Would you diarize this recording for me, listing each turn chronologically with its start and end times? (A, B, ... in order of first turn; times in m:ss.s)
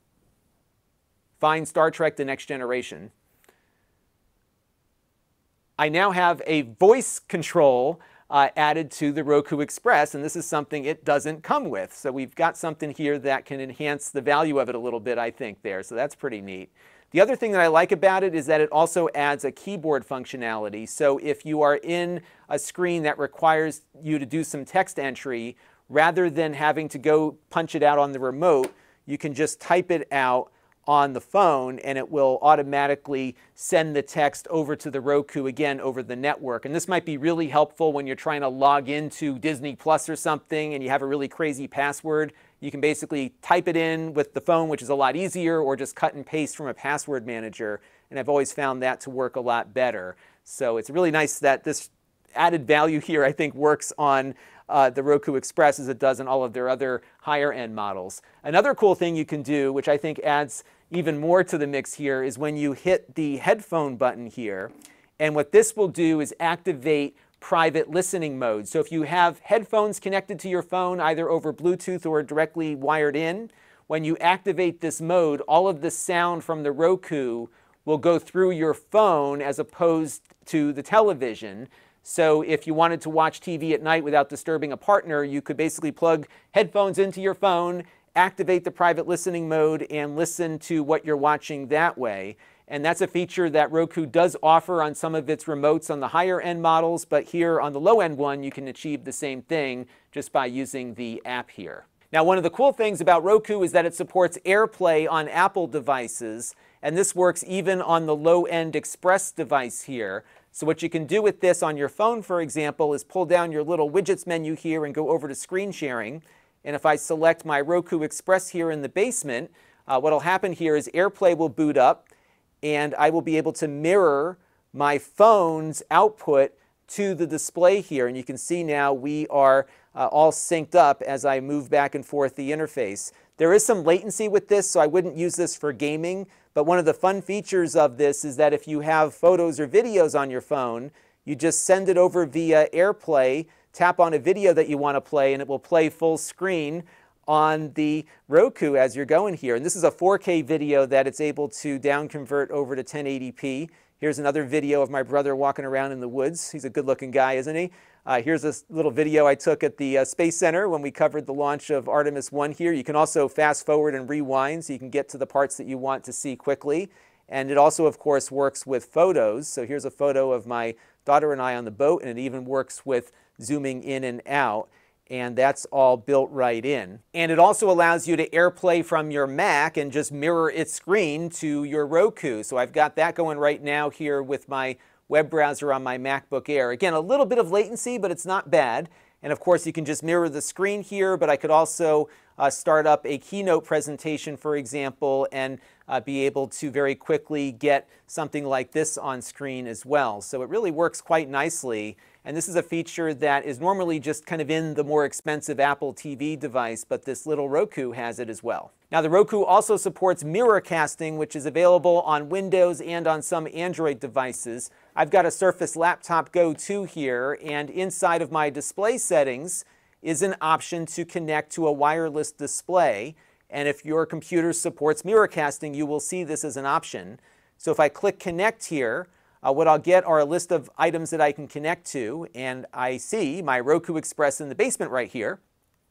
0:01.4-0:03.1 A
0:05.8-2:02.1 A
2:02.6-3:55.4 A